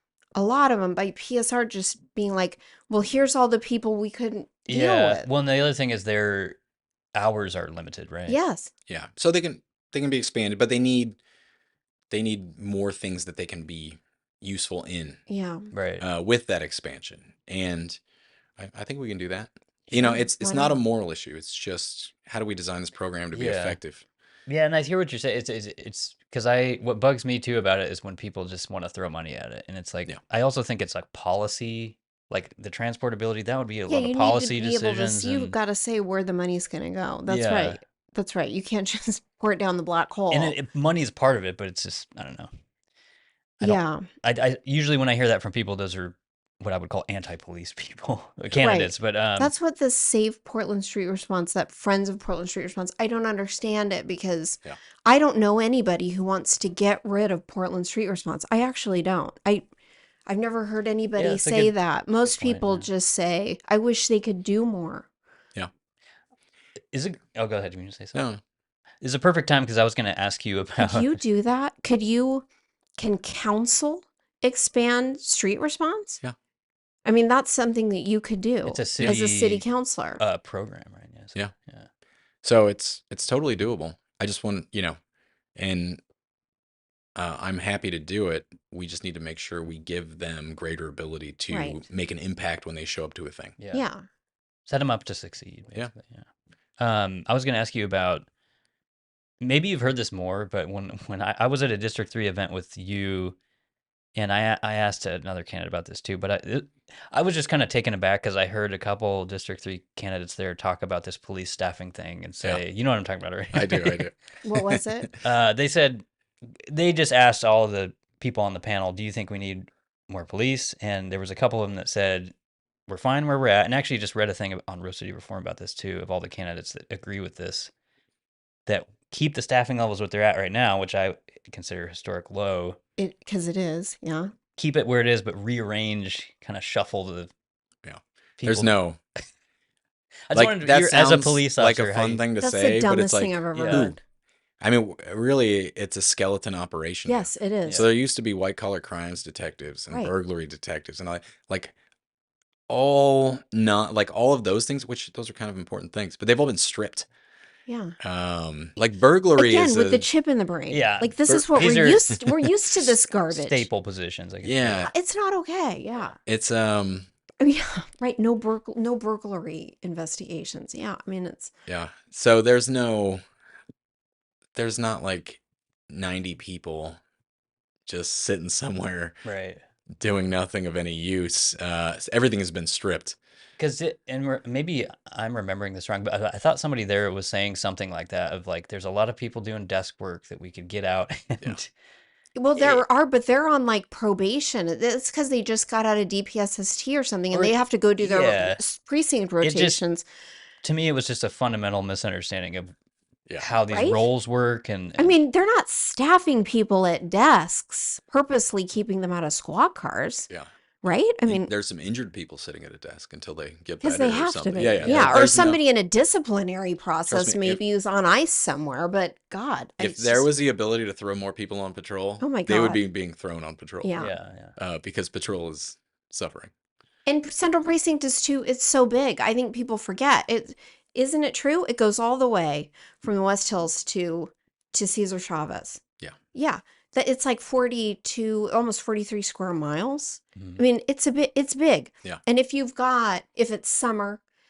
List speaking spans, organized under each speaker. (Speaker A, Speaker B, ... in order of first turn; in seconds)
Speaker A: 0.3-5.3, 8.3-8.7, 15.3-15.7, 19.9-20.8, 33.9-40.6, 43.6-44.1, 48.6-59.6, 60.2-65.1, 70.8-72.5, 73.0-76.2, 77.0-80.2, 91.5-91.8, 93.7-94.0, 114.4-115.1, 133.0-134.3, 142.4-144.0, 147.1-147.8, 157.7-157.9, 159.3-163.7, 164.9-166.2, 167.4-171.5, 192.3-200.0, 203.7-204.1, 205.0-210.3, 210.8-211.5, 213.8-220.3, 222.2-222.8, 223.8-224.1, 227.1-235.8, 236.3-244.2
Speaker B: 4.7-6.6, 7.1-8.4, 15.7-16.0, 23.3-23.8, 24.5-35.5, 37.3-37.8, 40.3-42.5, 43.6-49.5, 61.2-62.9, 66.9-68.2, 69.0-71.2, 78.7-79.6, 80.2-81.9, 93.6-93.8, 94.7-96.3, 96.8-98.3, 99.4-103.3, 104.2-114.1, 115.2-116.0, 116.7-122.3, 122.9-127.7, 128.7-132.8, 134.6-137.3, 138.4-138.7, 140.3-142.2, 143.5-143.9, 160.7-162.2, 163.3-164.9, 179.2-179.6, 183.6-191.7, 192.6-192.8, 197.3-198.6, 199.4-199.8, 200.6-202.7, 203.4-205.2, 214.8-215.2, 224.0-224.5, 240.4-240.6
Speaker C: 8.9-11.2, 12.1-15.2, 16.0-18.0, 18.6-24.0, 68.1-68.4, 82.4-85.0, 85.5-86.0, 87.2-93.5, 113.5-115.2, 137.8-139.0, 140.3-144.0, 144.6-151.7, 152.7-157.1, 158.0-160.1, 161.2-162.9, 164.4-164.9, 166.2-167.1, 171.7-173.2, 174.6-177.0, 177.8-179.2, 180.0-183.2, 211.2-215.6, 217.1-217.6, 219.8-223.9, 224.6-226.5